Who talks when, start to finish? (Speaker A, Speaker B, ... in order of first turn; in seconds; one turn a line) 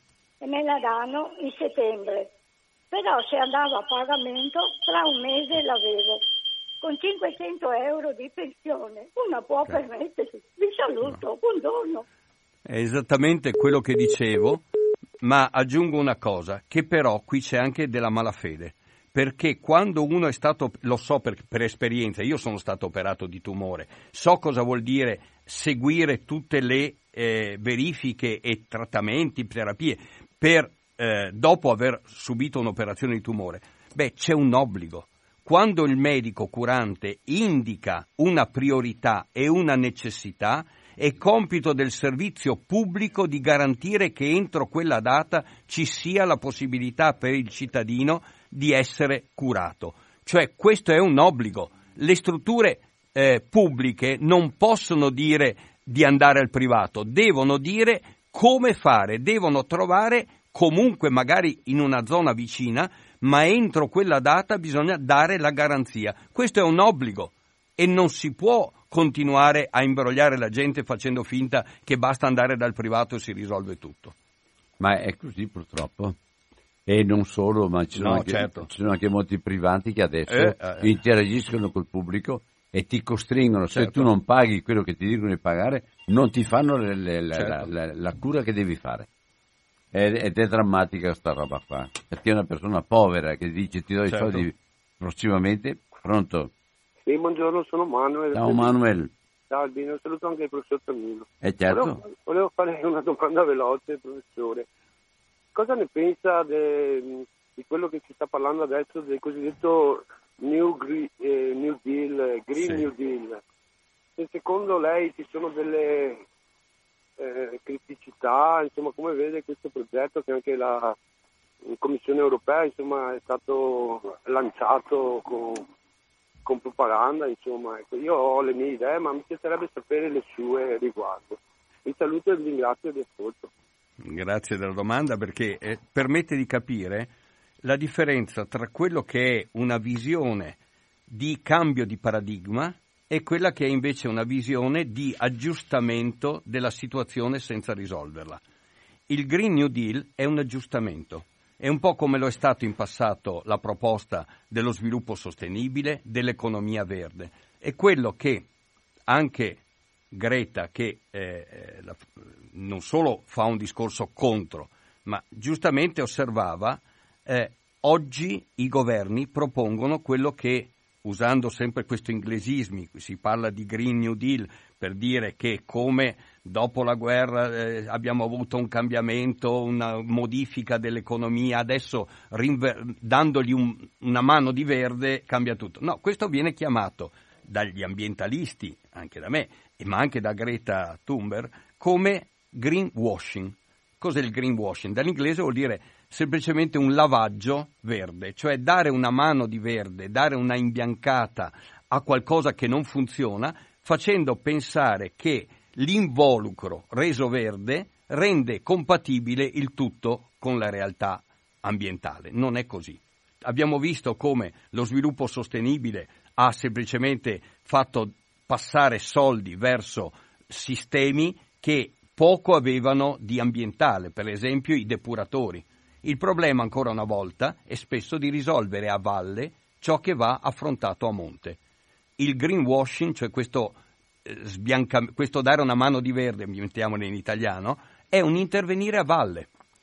Speaker A: 0.4-2.3
Speaker A: 2.9-6.2
Speaker A: 6.8-12.0
Speaker B: 12.7-14.6
Speaker B: 15.2-74.1
Speaker C: 74.8-76.2
Speaker C: 76.8-89.1
Speaker B: 78.0-78.7
Speaker B: 80.3-81.0
Speaker B: 83.7-84.1
Speaker B: 87.3-87.7
Speaker C: 89.9-96.5
Speaker B: 94.1-94.4
Speaker D: 97.0-98.7
Speaker C: 98.3-99.1
Speaker D: 99.5-104.7
Speaker C: 101.4-102.0
Speaker D: 105.5-113.4
Speaker D: 114.2-116.2
Speaker D: 117.2-121.0
Speaker D: 121.7-125.7
Speaker D: 126.4-133.5
Speaker B: 134.0-148.4
Speaker B: 149.1-158.5
Speaker B: 159.1-159.6
Speaker B: 160.1-231.6
Speaker B: 232.2-239.5